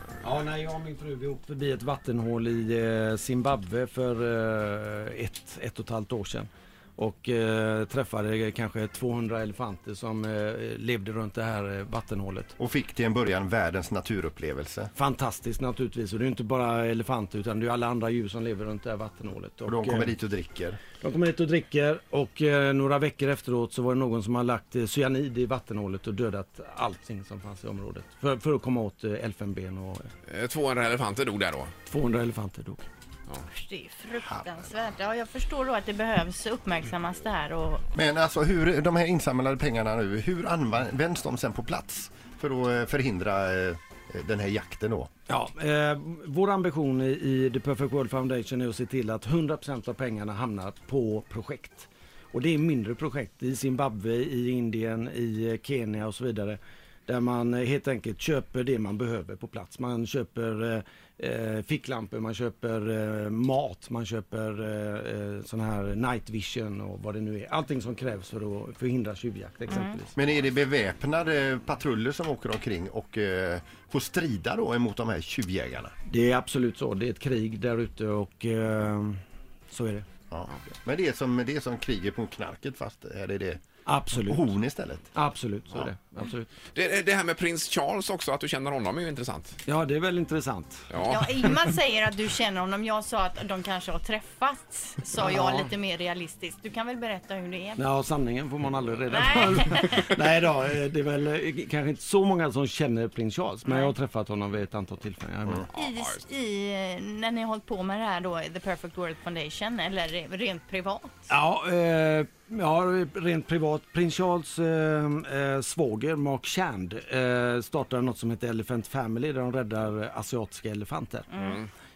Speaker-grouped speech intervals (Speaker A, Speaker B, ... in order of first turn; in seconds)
Speaker A: 0.2-12.5, 14.9-20.1, 21.0-30.1, 31.9-32.8, 45.3-70.3, 76.1-79.2, 79.7-80.1, 83.8-84.5, 85.1-86.5, 89.7-90.8, 95.2-95.7, 97.8-105.7, 111.3-121.3
Speaker B: 12.6-14.9, 19.6-20.8, 37.9-45.1, 70.2-75.9, 80.3-83.6, 84.2-85.1
Speaker C: 30.3-31.7, 86.7-89.5, 90.9-91.3, 105.7-106.2, 121.4-121.7
Speaker D: 33.5-37.8, 69.7-70.0, 91.0-97.8, 99.1-100.1, 103.7-103.9, 105.7-111.3, 121.3-121.6